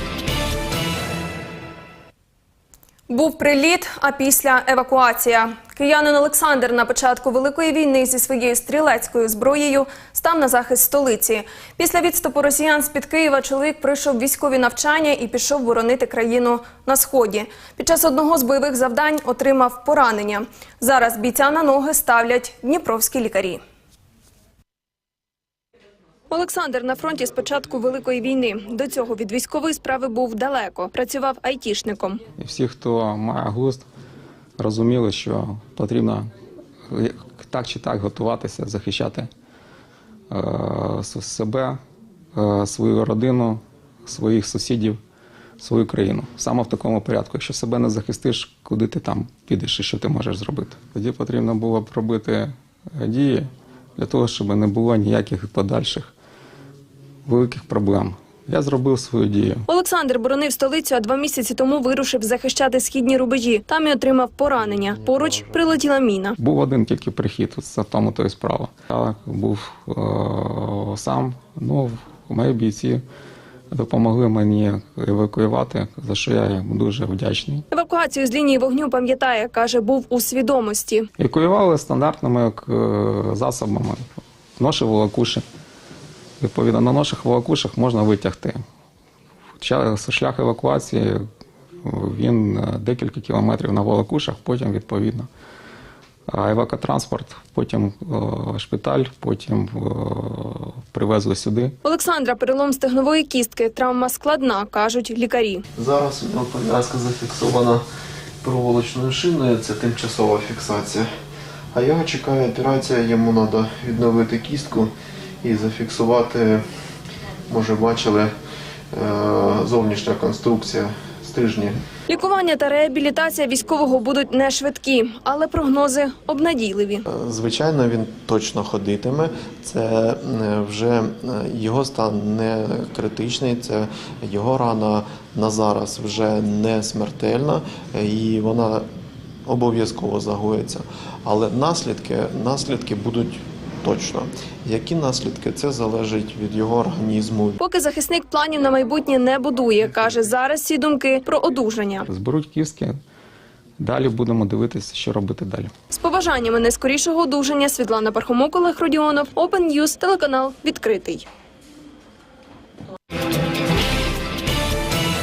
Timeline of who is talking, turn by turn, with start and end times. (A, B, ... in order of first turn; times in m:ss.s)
0:03.1-0:23.6 A
0:26.3-0:32.2 A
0:32.4-0:33.8 B
0:34.6-0:36.3 B
0:36.9-0:39.3 B
0:40.3-0:41.8 B
0:42.3-0:45.0 B
0:45.6-0:56.1 B
0:57.2-0:59.6 B
0:59.7-1:06.4 A
1:06.4-1:13.0 B
1:13.7-1:17.6 B
1:17.7-1:21.1 A
1:21.2-1:24.0 B
1:24.6-1:25.4 B
1:26.4-1:28.6 B
1:29.6-1:31.2 B
1:31.8-1:35.3 B
1:36.3-1:41.7 B
1:41.8-1:45.6 A
1:45.8-1:47.8 C
1:48.4-1:51.1 C
1:51.7-1:56.6 C
1:57.5-1:58.3 C
1:58.9-2:01.8 C
2:02.1-2:07.0 A
2:07.1-2:18.8 C
2:19.4-2:27.6 C
2:27.6-2:32.1 A
2:32.1-2:33.0 B
2:33.8-2:35.7 B
2:35.9-2:41.2 A